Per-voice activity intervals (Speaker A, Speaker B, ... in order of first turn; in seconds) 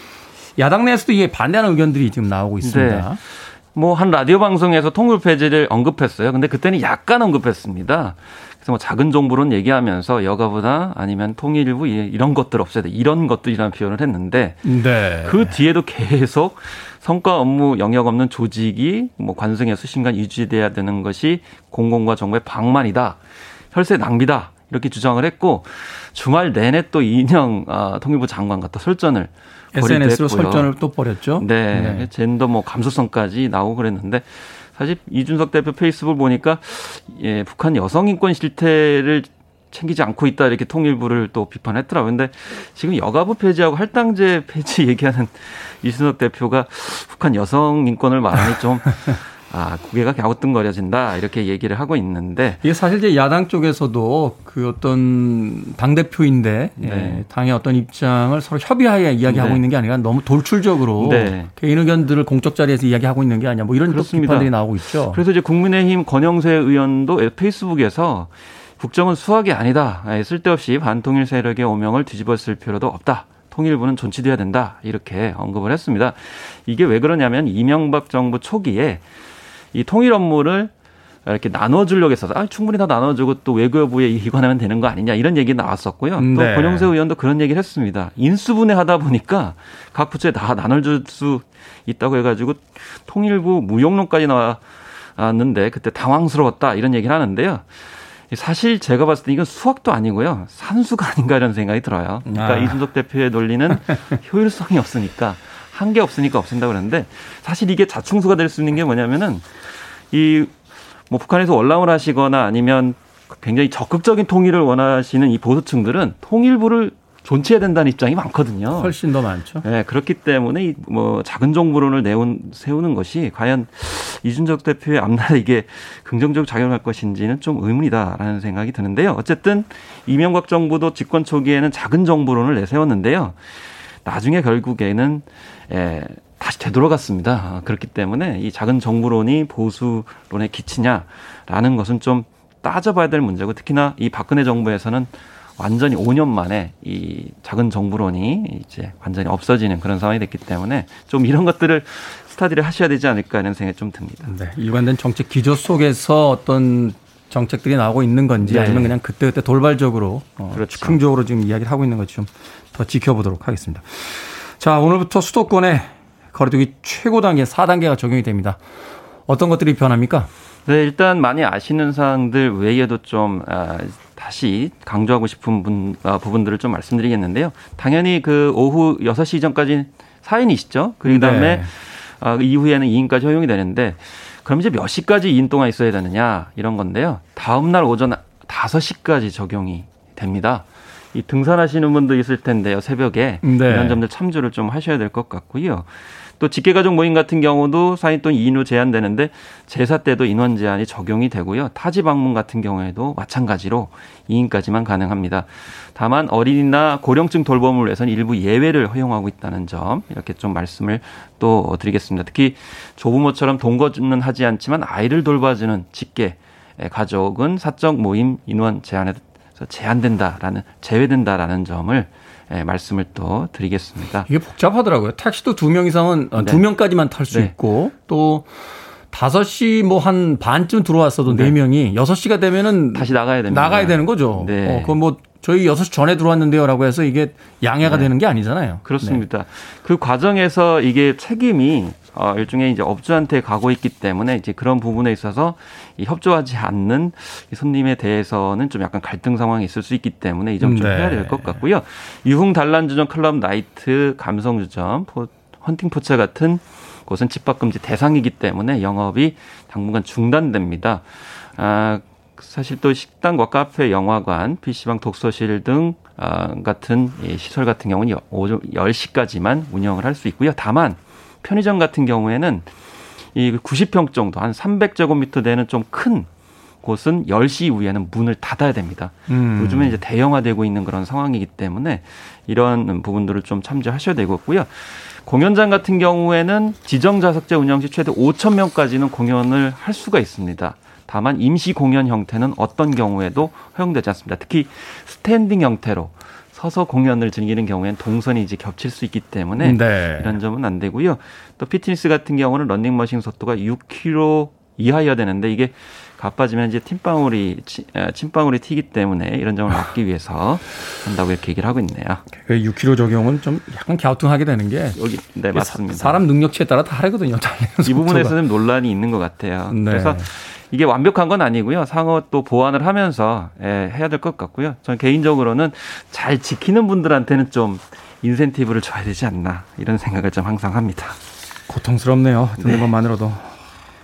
Speaker A: 0.6-3.2, 14.6-15.6, 29.7-32.1, 52.6-65.2, 86.2-86.9, 102.3-102.8, 118.8-119.6, 154.2-168.6, 169.3-170.3, 181.1-181.7, 193.4-194.0, 224.3-228.5, 229.1-239.2, 250.6-251.6, 279.3-280.0, 299.6-300.4, 312.4-315.0, 315.5-318.3, 319.7-320.2, 331.7-333.5
Speaker B: 2.6-14.7, 15.2-30.7, 31.4-52.6, 56.8-57.2, 59.3-59.6, 61.0-61.5, 63.9-64.5, 65.1-79.0, 79.7-80.7, 81.2-110.5, 111.1-118.9, 119.6-154.3, 158.4-158.9, 160.5-161.0, 170.7-224.3, 226.4-226.6, 231.3-231.5, 232.9-234.9, 237.8-238.1, 238.8-272.7, 273.3-276.3, 276.8-312.2, 315.0-316.2, 317.8-331.2, 332.6-332.9